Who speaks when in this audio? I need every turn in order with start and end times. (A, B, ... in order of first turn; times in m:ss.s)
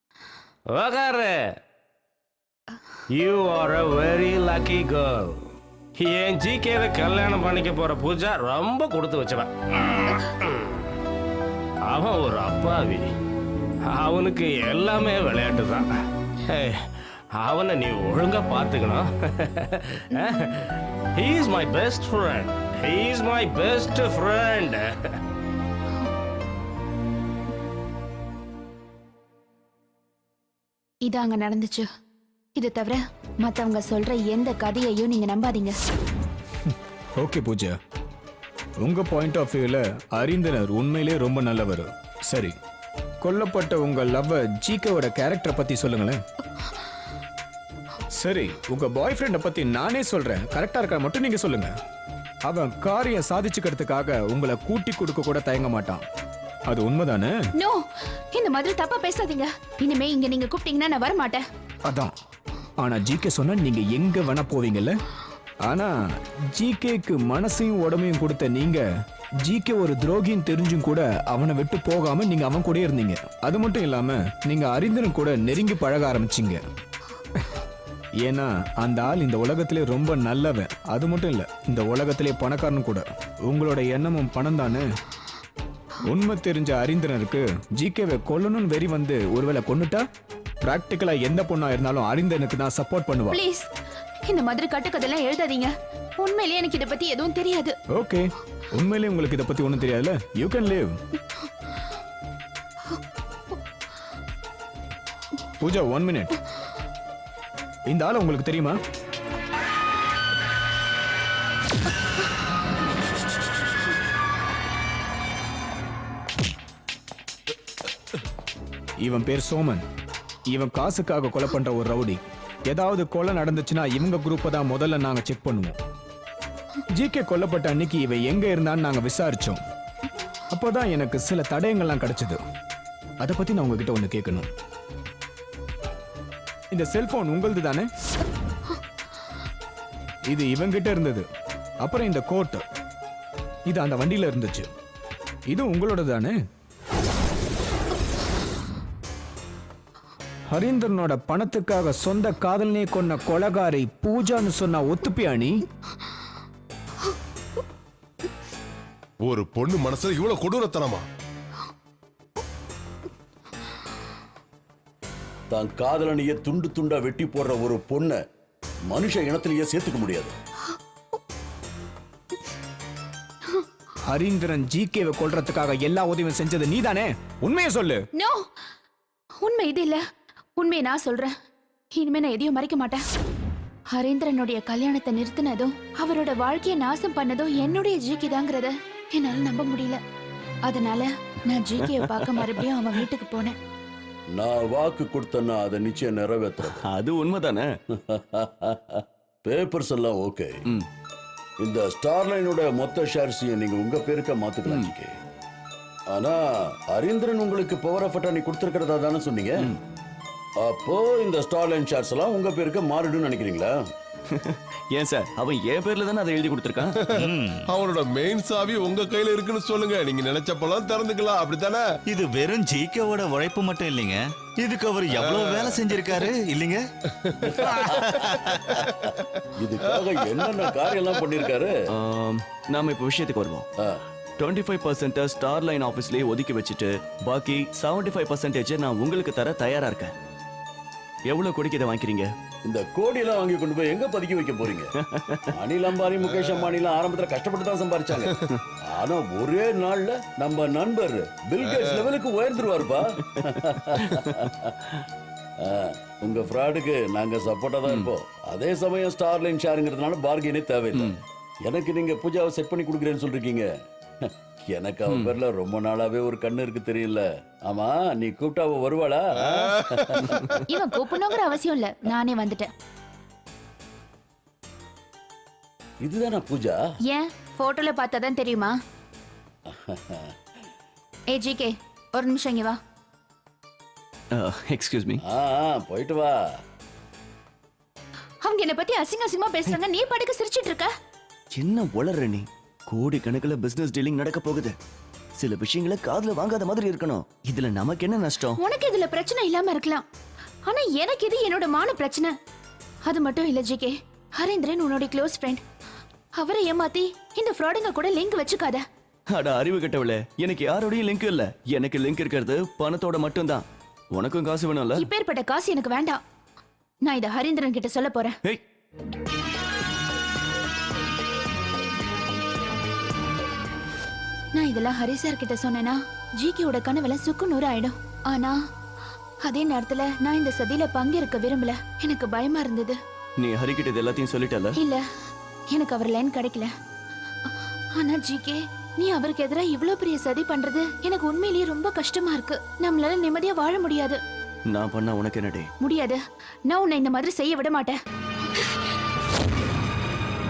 0:00.7-0:01.4 A
0:03.1-0:05.4 A
0:06.0-0:09.5 A
0:10.0-0:10.8 A
0:11.9-0:13.1 A
0:13.9-0:15.9 A
0:16.5-0:16.8 A
0:17.3-0:20.5 A
0:21.2-0:24.9 A
0:31.0-0:31.9 B
0:32.6-0:35.8 B
0:36.7-0:37.8 C
0:38.8-0:42.5 C
0:43.2-0:46.2 C
0:48.1-0:51.7 C
0:52.5-0:56.0 C
0:56.7-0:57.4 C
0:57.6-1:01.4 B
1:01.9-1:02.1 C
1:02.8-1:05.0 C
1:05.7-1:05.9 C
1:06.6-1:08.8 C
1:09.4-1:16.6 C
1:18.2-1:24.9 C
1:26.0-1:30.0 C
1:30.6-1:33.4 C
1:33.3-1:33.7 B
1:34.3-1:37.7 B
1:37.9-1:41.0 C
1:45.6-1:46.4 C
1:47.9-1:48.8 C
1:59.0-1:59.8 C
2:00.5-2:05.8 C
2:06.9-2:09.6 C
2:10.5-2:12.4 C
2:13.2-2:14.5 C
2:16.7-2:17.9 C
2:20.3-2:21.3 C
2:21.8-2:22.6 C
2:23.7-2:24.7 C
2:25.5-2:26.4 C
2:30.5-2:35.6 C
2:39.2-2:41.1 D
2:45.5-2:48.2 E
2:48.9-2:50.3 E
2:54.1-2:58.0 C
2:58.2-2:58.5 B
2:59.4-3:00.0 B
3:00.6-3:01.3 B
3:02.0-3:03.0 B
3:03.9-3:10.0 B
3:10.7-3:13.6 B
3:11.8-3:12.6 F
3:14.3-3:16.8 E
3:16.6-3:17.7 F
3:18.0-3:20.5 E
3:21.6-3:25.1 E
3:24.7-3:24.9 F
3:26.1-3:29.7 E
3:30.6-3:33.8 E
3:34.3-3:37.0 F
3:37.0-3:41.9 D
3:37.2-3:37.6 G
3:42.1-3:46.8 G
3:45.1-3:46.3 D
3:47.2-3:47.5 D
3:47.4-3:48.0 E
3:47.6-3:48.6 G
3:48.4-3:48.9 D
3:49.6-3:51.7 E
3:49.9-3:50.5 D
3:51.9-3:53.7 F
3:54.4-4:00.1 F
4:01.3-4:02.3 F
4:02.7-4:04.9 E
4:05.0-4:05.5 F
4:05.5-4:08.4 E
4:06.3-4:06.7 D
4:08.9-4:14.9 E
4:11.6-4:12.1 D
4:14.0-4:14.3 F
4:15.6-4:21.1 E
4:21.6-4:23.7 E
4:24.2-4:30.6 E
4:25.1-4:25.3 F
4:29.4-4:30.2 D
4:30.7-4:32.7 B
4:36.0-4:36.8 E
4:37.1-4:38.7 B
4:39.7-4:40.3 E
4:41.3-4:42.8 B
4:44.3-4:45.2 F
4:45.2-4:46.4 E
4:48.4-4:50.9 B
4:51.5-4:54.8 F
4:55.4-4:58.6 F
4:58.6-5:00.0 B
5:00.7-5:02.3 B
5:03.1-5:05.6 B
5:06.4-5:08.8 B
5:09.3-5:15.1 F
5:15.0-5:16.2 B
5:17.0-5:18.4 B
5:24.6-5:28.6 B
5:29.4-5:33.0 B
5:33.4-5:34.8 F
5:34.8-5:35.0 B
5:35.7-5:36.7 B
5:38.0-5:44.2 B
5:44.7-5:45.7 F
5:45.8-5:48.0 B